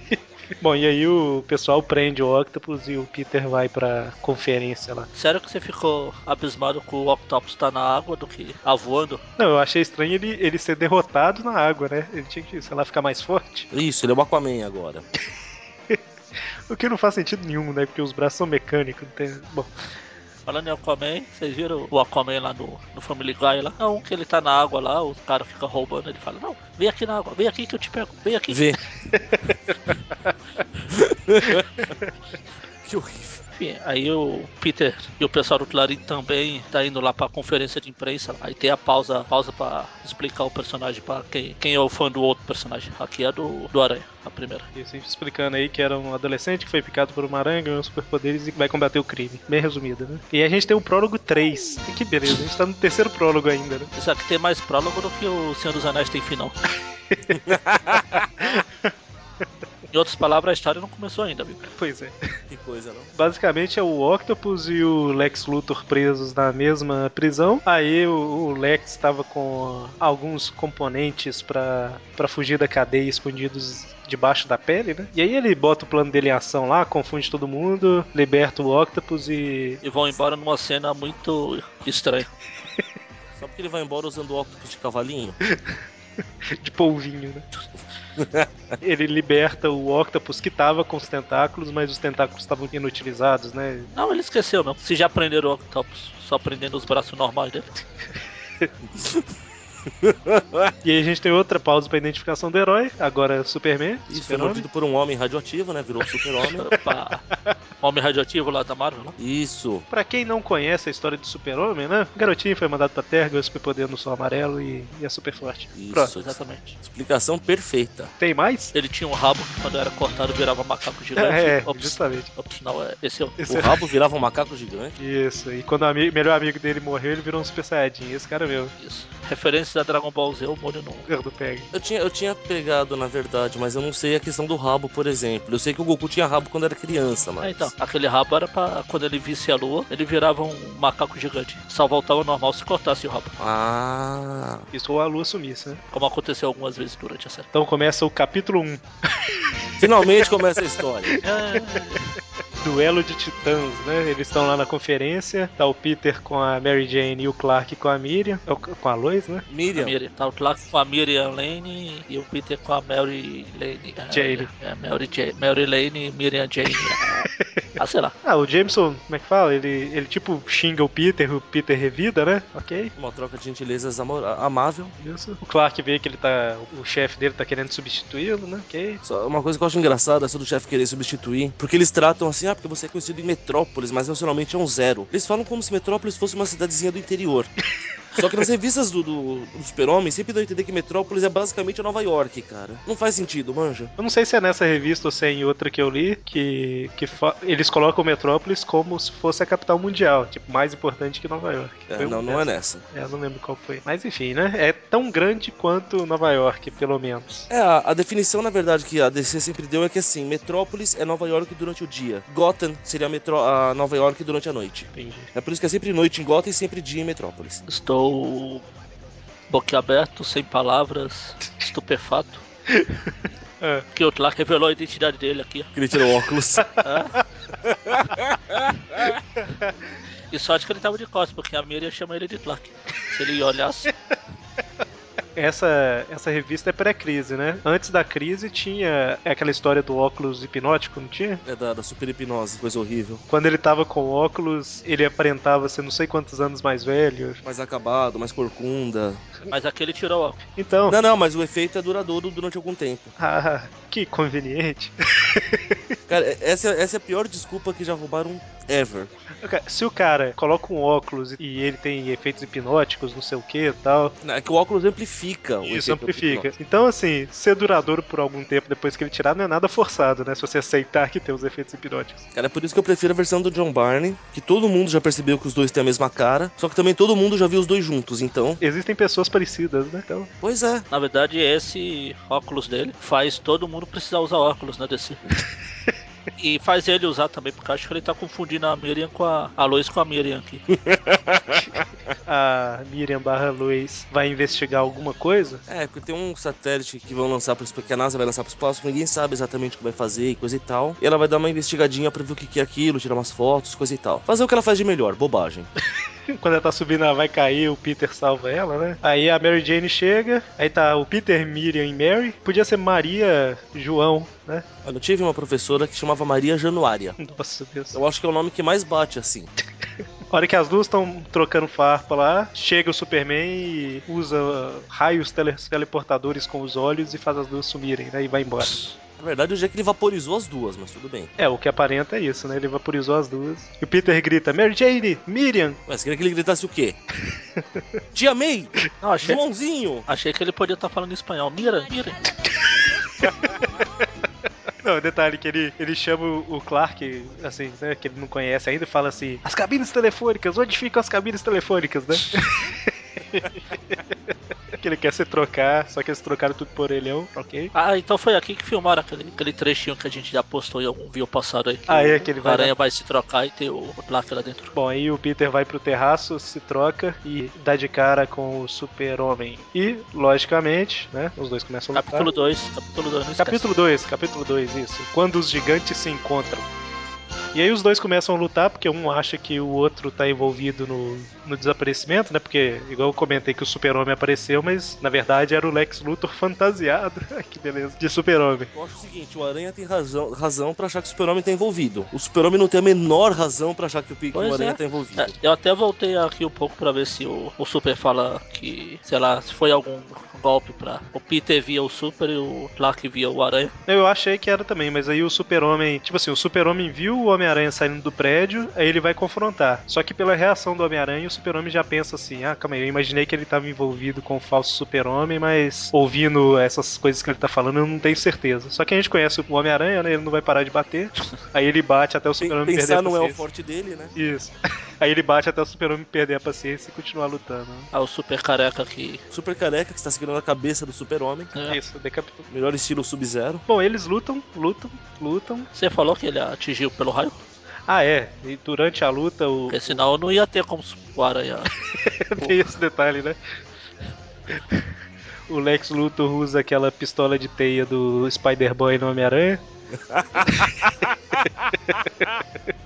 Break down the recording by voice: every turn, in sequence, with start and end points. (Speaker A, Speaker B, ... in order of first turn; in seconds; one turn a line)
Speaker A: 0.6-5.1
Speaker B: 5.1-9.2
Speaker A: 9.4-13.7
Speaker C: 13.7-15.1
Speaker A: 16.7-19.7
Speaker B: 20.4-28.6
Speaker C: 28.5-28.8
Speaker A: 29.1-29.5
Speaker C: 30.9-31.9
Speaker C: 32.8-33.4
Speaker B: 33.5-44.7
Speaker A: 44.7-53.9
Speaker B: 54.0-56.5
Speaker A: 57.1-57.4
Speaker C: 57.3-58.2
Speaker A: 58.4-58.9
Speaker B: 59.9-61.6
Speaker A: 61.7-62.1
Speaker C: 62.5-63.1
Speaker A: 63.1-79.8
Speaker B: 79.8-82.3
Speaker C: 83.4-85.4
Speaker A: 85.5-85.8
Speaker A: 86.5-87.5
Speaker C: 88.2-88.5
Speaker A: 88.8-93.9
Speaker B: 93.9-97.7
Speaker C: 98.9-99.2
Speaker C: 99.9-100.7
Speaker A: 100.8-104.6
Speaker C: 104.1-106.7
Speaker B: 106.5-107.3
Speaker B: 107.8-109.2
Speaker C: 109.2-109.8
Speaker A: 109.9-116.1
Speaker C: 115.7-118.1
Speaker B: 116.1-116.8
Speaker A: 118.2-118.7
Speaker B: 118.7-123.4
Speaker A: 121.2-122.3
Speaker A: 123.4-123.8
Speaker C: 123.5-124.9
Speaker A: 125.0-128.7
Speaker B: 128.8-131.1
Speaker A: 131.1-131.7
Speaker C: 131.7-137.7
Speaker B: 137.4-143.3
Speaker C: 143.4-144.7
Speaker A: 144.7-145.8
Speaker B: 145.9-147.5
Speaker A: 147.5-150.3
Speaker C: 149.8-151.2
Speaker A: 151.1-152.0
Speaker B: 151.2-152.1
Speaker A: 152.6-159.4
Speaker C: 159.5-159.9
Speaker B: 159.7-167.3
Speaker A: 164.1-164.5
Speaker B: 167.8-168.1
Speaker A: 168.2-172.9
Speaker C: 172.9-174.9
Speaker A: 175.0-179.0
Speaker C: 179.0-187.5
Speaker C: 188.1-193.9
Speaker A: 194.0-207.5
Speaker C: 201.9-202.8
Speaker C: 207.5-217.6
Speaker A: 214.9-215.3
Speaker B: 217.7-218.6
Speaker B: 219.5-222.4
Speaker A: 222.7-223.8
Speaker B: 223.9-225.7
Speaker C: 225.7-226.7
Speaker B: 226.8-227.2
Speaker C: 227.6-229.1
Speaker B: 230.3-233.9
Speaker A: 235.3-241.4
Speaker C: 241.4-243.2
Speaker A: 243.3-247.4
Speaker C: 247.4-249.2
Speaker B: 249.5-250.4
Speaker A: 250.6-251.0
Speaker C: 250.9-253.1
Speaker A: 253.2-255.8
Speaker C: 256.1-259.1
Speaker A: 259.4-264.1
Speaker C: 264.2-266.5
Speaker A: 265.6-272.2
Speaker C: 272.3-278.6
Speaker A: 278.6-280.3
Speaker C: 280.4-280.9
Speaker B: 280.9-285.2
Speaker B: 286.4-290.6
Speaker C: 290.7-291.8
Speaker A: 292.2-295.6
Speaker C: 295.7-305.7
Speaker A: 306.3-314.6
Speaker C: 314.8-317.2
Speaker A: 317.2-318.0
Speaker C: 317.9-319.5
Speaker A: 320.3-328.9
Speaker C: 329.2-331.3
Speaker A: 331.4-335.8
Speaker C: 335.9-337.0
Speaker C: 338.1-340.1
Speaker B: 339.0-339.4
Speaker B: 340.1-342.2
Speaker A: 343.2-343.5
Speaker A: 344.8-354.0
Speaker A: 354.8-357.7
Speaker B: 357.7-364.7
Speaker A: 361.9-362.7
Speaker A: 364.7-372.3
Speaker B: 371.9-373.7
Speaker A: 373.4-376.6
Speaker A: 377.5-388.7
Speaker C: 388.7-395.3
Speaker B: 394.3-403.7
Speaker A: 403.9-423.4
Speaker C: 422.4-424.1
Speaker A: 424.1-427.9
Speaker B: 427.9-429.2
Speaker C: 429.3-431.5
Speaker B: 431.5-431.8
Speaker A: 431.7-432.5
Speaker C: 432.5-433.6
Speaker A: 433.7-435.7
Speaker B: 435.7-437.4
Speaker A: 437.9-440.0
Speaker B: 439.7-441.7
Speaker A: 441.9-443.4
Speaker A: 445.5-449.6
Speaker C: 449.9-451.7
Speaker A: 450.4-450.9
Speaker A: 451.9-452.3